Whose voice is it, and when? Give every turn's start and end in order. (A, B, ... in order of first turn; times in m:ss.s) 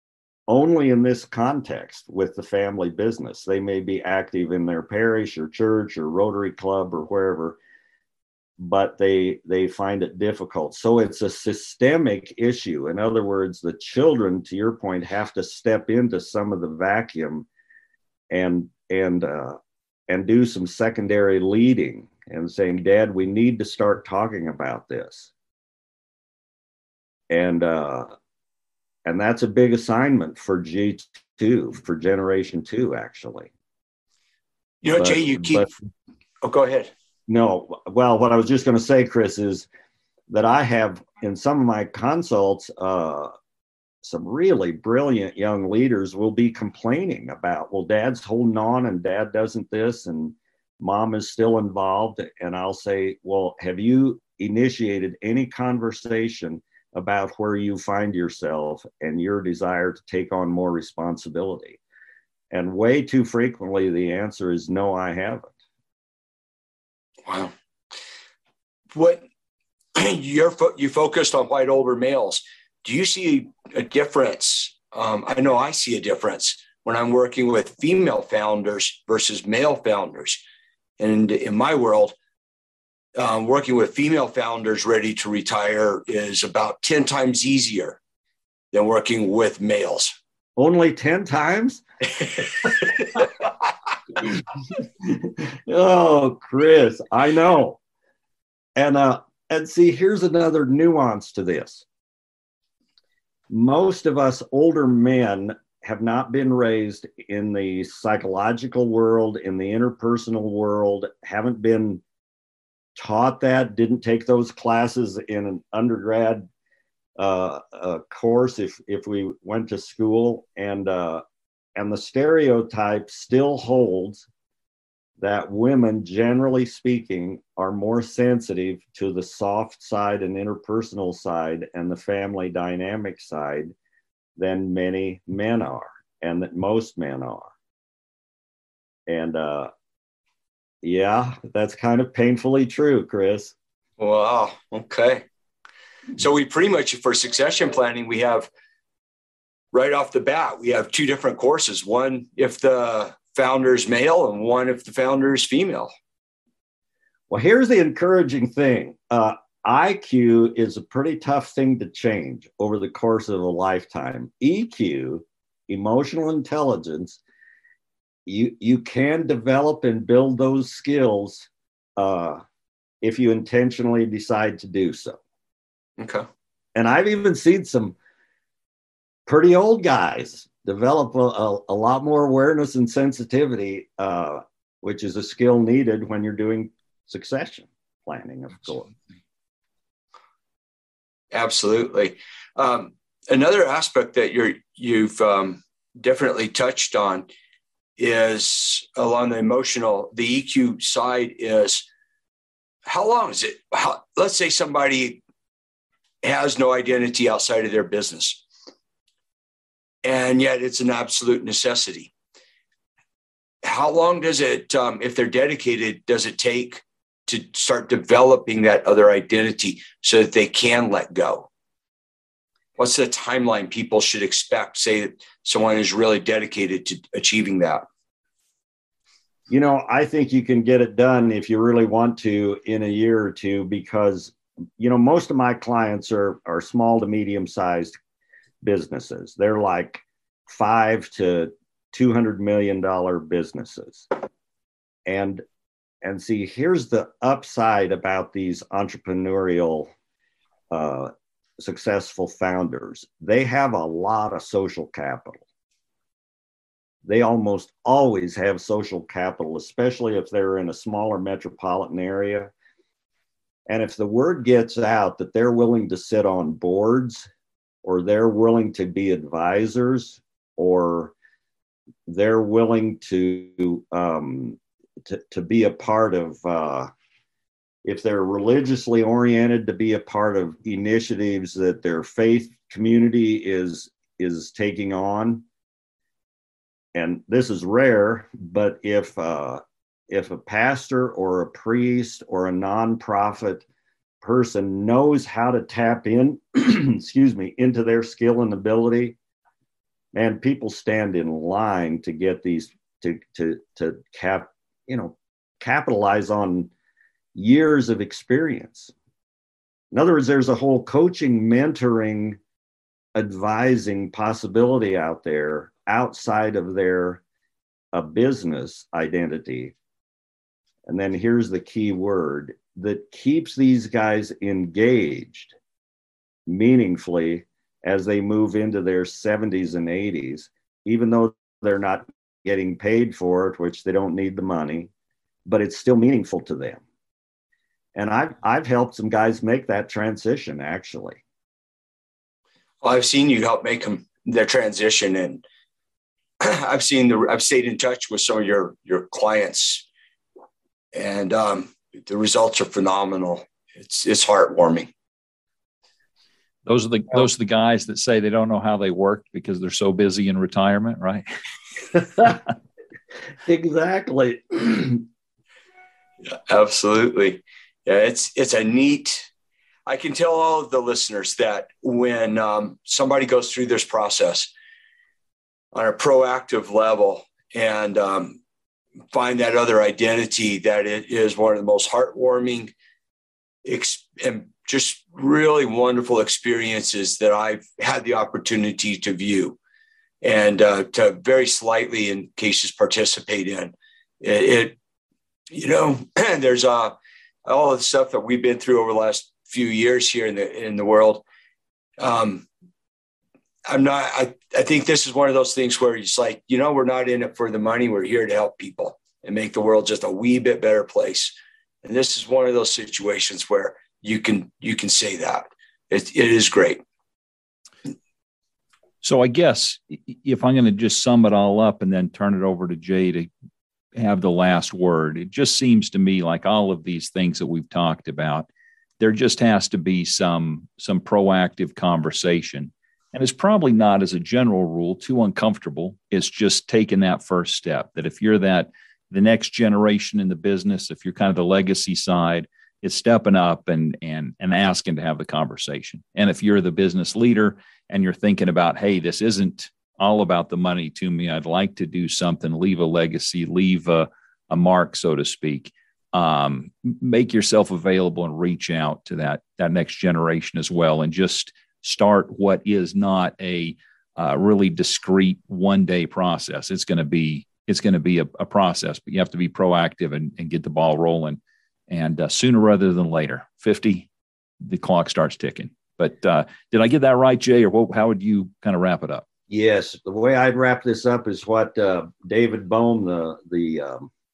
0:00.5-0:07.6 A
0:08.6-0:17.5 A
0:18.3-0:25.3 A
0:27.3-0:28.1 A
0:29.0-0:33.5 A
0:34.8-0:35.7 B
0:35.0-0:35.7 A
0:36.4-0:36.9 B
0:37.3-0:39.7 A
0:40.3-0:43.3 A
0:44.0-1:01.8 A
1:02.5-1:05.5 A
1:07.2-1:07.5 B
1:08.9-1:09.2 B
1:10.0-1:20.4 B
1:21.0-1:22.1 B
1:23.2-1:28.0 B
1:28.7-1:30.1 B
1:30.6-1:32.5 A
1:34.2-1:37.8 A
1:38.8-1:41.9 A
1:43.5-1:52.0 A
1:53.0-1:56.5 A
1:57.2-2:01.2 A
2:01.8-2:04.2 A
2:05.2-2:13.7 A
2:14.4-2:17.5 A
2:19.1-2:19.7 A
2:20.8-2:23.5 A
2:24.0-2:25.2 B
2:26.2-2:28.5 B
2:29.7-2:35.9 B
2:37.3-2:47.2 A
2:48.2-2:52.4 A
2:53.0-2:55.2 A
2:56.0-2:56.2 B
2:56.8-2:58.0 A
2:59.3-3:08.9 A
3:11.3-3:17.3 B
3:18.0-3:21.9 B
3:22.8-3:25.2 B
3:26.2-3:28.4 B
3:30.0-3:32.1 B
3:33.6-3:41.5 B
3:42.8-3:47.8 B
3:49.5-3:58.0 A
3:58.6-4:04.1 A
4:05.1-4:05.4 A
4:06.0-4:09.9 A
4:10.7-4:15.4 A
4:17.0-4:22.5 A
4:23.7-4:27.3 A
4:27.8-4:31.1 A
4:32.0-4:36.9 A
4:37.8-4:45.4 A
4:47.0-4:53.7 A
4:54.2-4:59.2 A
5:00.1-5:06.7 A
5:07.3-5:08.9 A
5:09.9-5:12.4 A
5:13.2-5:17.2 A
5:17.9-5:19.7 A
5:20.8-5:25.5 A
5:26.5-5:34.9 A
5:35.5-5:36.8 A
5:38.0-5:41.2 A
5:42.8-5:45.4 B
5:46.4-5:49.8 B
5:50.9-5:54.9 B
5:56.6-6:01.2 C
6:03.5-6:05.0 A
6:06.2-6:09.3 B
6:09.9-6:14.5 B
6:15.7-6:18.4 B
6:19.1-6:22.7 B
6:23.6-6:29.6 B
6:30.2-6:34.8 B
6:35.5-6:41.2 B
6:42.0-6:42.5 B
6:43.7-6:56.8 B
6:59.0-7:03.3 C
7:04.0-7:08.5 C
7:09.0-7:54.1 C
7:54.7-7:59.2 C
7:59.5-8:04.1 A